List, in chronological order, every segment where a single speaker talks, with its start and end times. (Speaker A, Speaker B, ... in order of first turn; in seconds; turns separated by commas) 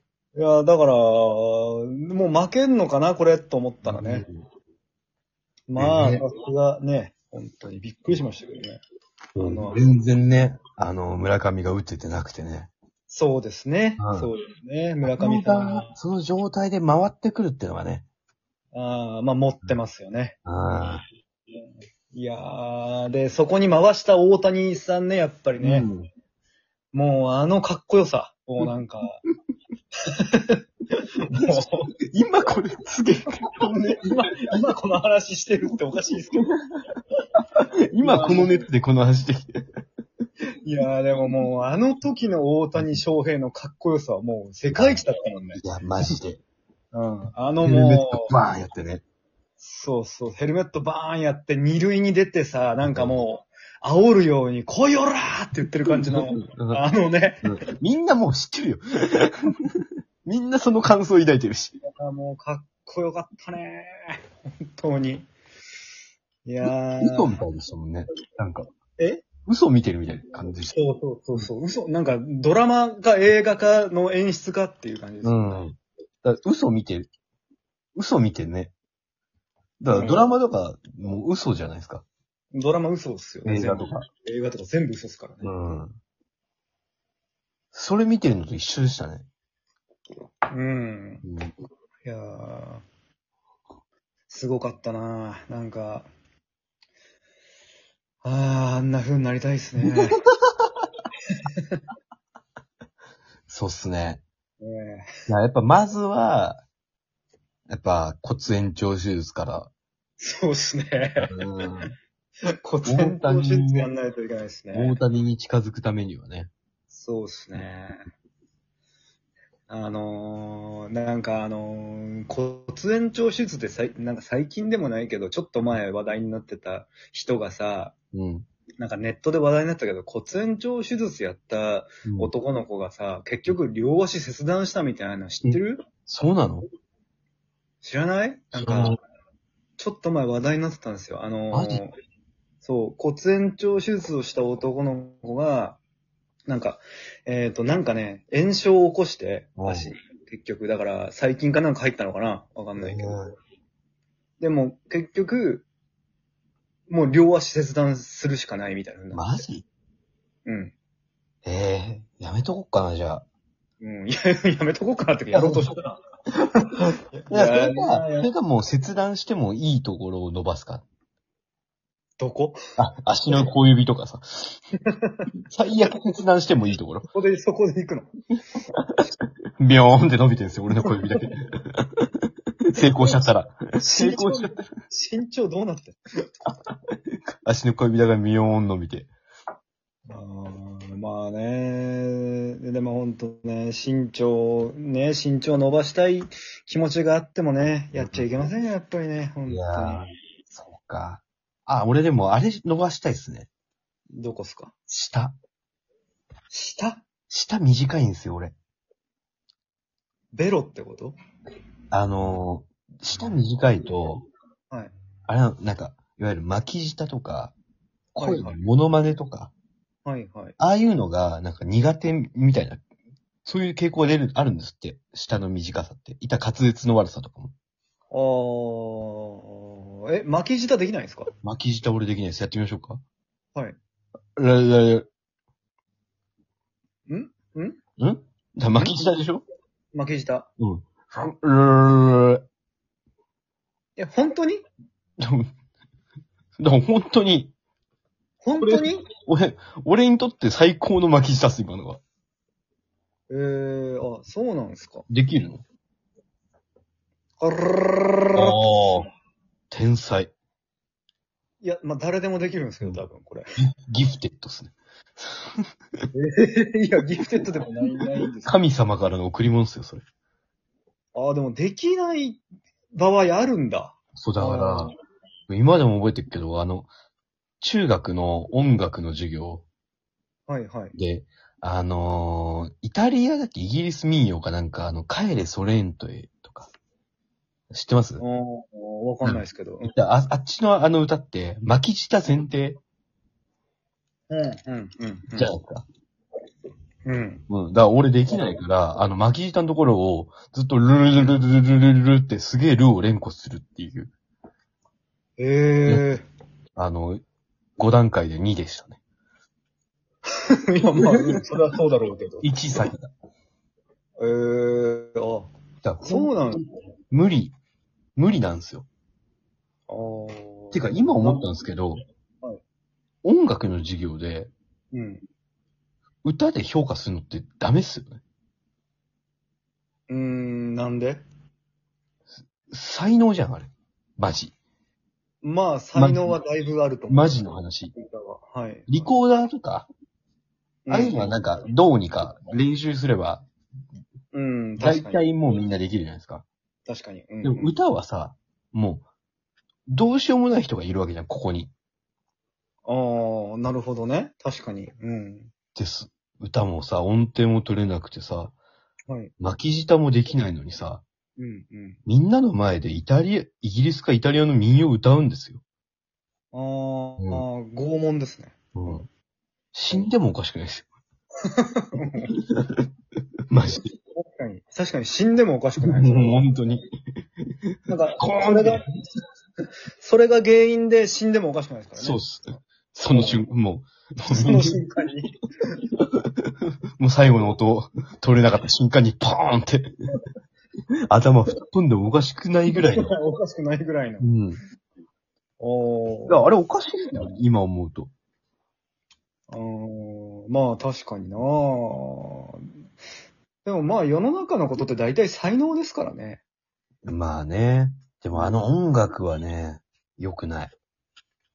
Speaker A: 0.4-4.3, Speaker B: 3.8-4.5, Speaker A: 5.7-8.8, Speaker B: 5.8-6.2, Speaker B: 9.3-12.7, Speaker A: 9.4-10.0, Speaker A: 13.1-15.9, Speaker B: 14.0-14.3, Speaker B: 15.0-18.1, Speaker A: 18.7-20.4, Speaker B: 20.5-21.0, Speaker A: 22.1-25.9, Speaker B: 25.6-26.1, Speaker A: 26.9-29.2, Speaker A: 30.1-30.6, Speaker A: 31.2-31.9, Speaker B: 31.3-34.0, Speaker A: 33.6-36.5, Speaker B: 37.9-39.5, Speaker A: 38.0-38.6, Speaker A: 40.6-45.6, Speaker B: 44.8-45.0, Speaker B: 45.6-46.4, Speaker A: 46.9-48.3, Speaker B: 47.6-49.0, Speaker A: 49.6-57.6, Speaker B: 52.8-53.2, Speaker B: 56.1-56.8, Speaker B: 57.4-59.5, Speaker B: 60.2-61.8, Speaker A: 61.9-64.2, Speaker A: 64.7-65.3, Speaker A: 66.5-67.4, Speaker B: 67.0-68.7, Speaker A: 69.0-69.2, Speaker B: 69.5-70.8, Speaker A: 70.7-75.6, Speaker B: 75.2-77.1, Speaker B: 78.0-78.7, Speaker B: 79.8-82.0, Speaker A: 79.9-80.3, Speaker A: 82.5-85.6, Speaker B: 83.5-84.1, Speaker B: 85.4-86.0, Speaker B: 87.7-89.3, Speaker A: 90.5-91.2, Speaker B: 91.2-91.5, Speaker A: 92.0-92.8, Speaker A: 94.3-96.1, Speaker A: 98.2-100.2, Speaker B: 103.5-104.2, Speaker A: 104.6-105.1, Speaker B: 105.3-106.6, Speaker B: 107.7-109.7, Speaker A: 110.2-111.3, Speaker B: 111.2-111.9, Speaker A: 112.6-115.0, Speaker B: 112.8-113.9, Speaker B: 114.7-116.5, Speaker A: 116.9-118.0, Speaker A: 119.7-128.0, Speaker B: 128.1-128.5, Speaker A: 128.8-135.8, Speaker B: 132.1-132.3, Speaker B: 135.4-136.7, Speaker A: 137.8-139.0, Speaker B: 138.6-139.0, Speaker A: 139.8-141.9, Speaker B: 141.5-141.8, Speaker A: 142.6-145.8, Speaker A: 146.5-153.2, Speaker B: 149.6-149.9, Speaker B: 152.8-153.3, Speaker A: 154.4-155.7, Speaker A: 156.9-159.4, Speaker B: 159.1-159.7, Speaker A: 160.5-160.7, Speaker B: 161.4-163.3, Speaker A: 163.8-166.0, Speaker B: 165.3-165.7, Speaker A: 166.6-168.3, Speaker B: 166.8-170.8, Speaker A: 172.2-172.6, Speaker B: 172.8-174.6, Speaker A: 174.9-175.2, Speaker B: 175.5-177.1, Speaker A: 177.1-178.1, Speaker B: 178.7-179.0, Speaker B: 179.6-181.9, Speaker B: 182.7-184.7, Speaker A: 183.8-186.0, Speaker B: 187.4-189.1, Speaker A: 190.1-200.0, Speaker B: 198.0-198.3, Speaker B: 199.5-203.5, Speaker A: 204.2-204.7, Speaker B: 204.9-205.3, Speaker A: 206.5-207.1, Speaker B: 207.3-208.6, Speaker A: 210.3-211.2, Speaker B: 211.9-214.3, Speaker B: 215.3-217.5, Speaker B: 218.1-219.5, Speaker A: 218.2-218.6, Speaker A: 220.1-220.6, Speaker B: 220.6-222.8, Speaker B: 223.4-227.5, Speaker A: 228.1-231.3, Speaker B: 231.4-233.0, Speaker B: 234.4-235.1, Speaker A: 237.1-237.8, Speaker B: 238.0-239.4, Speaker A: 239.9-240.5, Speaker B: 240.6-242.4, Speaker A: 244.0-244.6, Speaker B: 245.2-245.5, Speaker B: 246.6-247.5, Speaker A: 248.4-249.1, Speaker B: 248.6-252.0, Speaker A: 253.3-255.1, Speaker B: 255.1-255.6, Speaker A: 257.4-258.9, Speaker B: 258.4-259.1, Speaker B: 259.7-260.3, Speaker A: 261.6-263.5, Speaker B: 263.6-265.2, Speaker A: 266.1-268.6, Speaker B: 268.4-270.0, Speaker A: 271.1-275.0, Speaker B: 274.2-274.9, Speaker B: 275.5-276.9, Speaker B: 277.6-279.7, Speaker A: 280.5-280.9, Speaker B: 280.9-286.7, Speaker B: 287.7-288.2, Speaker A: 288.2-289.9, Speaker B: 289.2-292.8, Speaker A: 294.3-295.5, Speaker B: 295.4-295.9, Speaker A: 297.1-297.4, Speaker B: 297.5-304.1, Speaker A: 301.1-301.4, Speaker A: 305.4-306.2, Speaker B: 306.8-307.2, Speaker B: 307.8-309.0, Speaker A: 310.7-312.5, Speaker B: 312.4-313.1, Speaker A: 314.2-315.5, Speaker B: 315.8-317.6, Speaker A: 316.0-316.7, Speaker B: 318.2-318.9, Speaker A: 319.9-321.5, Speaker B: 320.7-322.0, Speaker B: 323.2-324.5, Speaker A: 324.9-325.2, Speaker B: 326.2-328.2, Speaker A: 330.1-331.2, Speaker B: 332.7-334.6, Speaker A: 335.4-339.1, Speaker B: 336.0-336.4, Speaker B: 337.1-337.9, Speaker B: 338.9-339.9, Speaker A: 340.9-341.3, Speaker B: 340.9-343.4, Speaker A: 344.3-345.3, Speaker B: 344.8-346.5, Speaker A: 346.9-347.7, Speaker B: 347.4-349.0, Speaker B: 349.9-351.7, Speaker A: 352.9-355.5, Speaker B: 355.8-358.5, Speaker B: 359.4-361.0, Speaker A: 361.4-362.0, Speaker B: 362.1-365.6, Speaker A: 366.5-369.0, Speaker B: 367.2-367.4, Speaker B: 368.8-369.1, Speaker B: 369.7-370.9, Speaker A: 371.4-372.3, Speaker B: 372.4-372.9, Speaker B: 373.5-373.9, Speaker A: 374.1-376.4, Speaker B: 375.8-376.9, Speaker B: 377.7-378.8, Speaker A: 377.9-378.9, Speaker A: 380.0-382.6, Speaker B: 382.0-384.8, Speaker A: 383.1-383.4, Speaker A: 384.3-385.8, Speaker B: 387.0-389.9, Speaker B: 391.1-393.1, Speaker A: 392.7-394.3, Speaker B: 394.2-394.6, Speaker A: 395.6-396.4, Speaker B: 396.3-398.1, Speaker A: 399.5-402.7, Speaker A: 403.6-406.4, Speaker B: 407.1-410.7, Speaker A: 408.3-408.7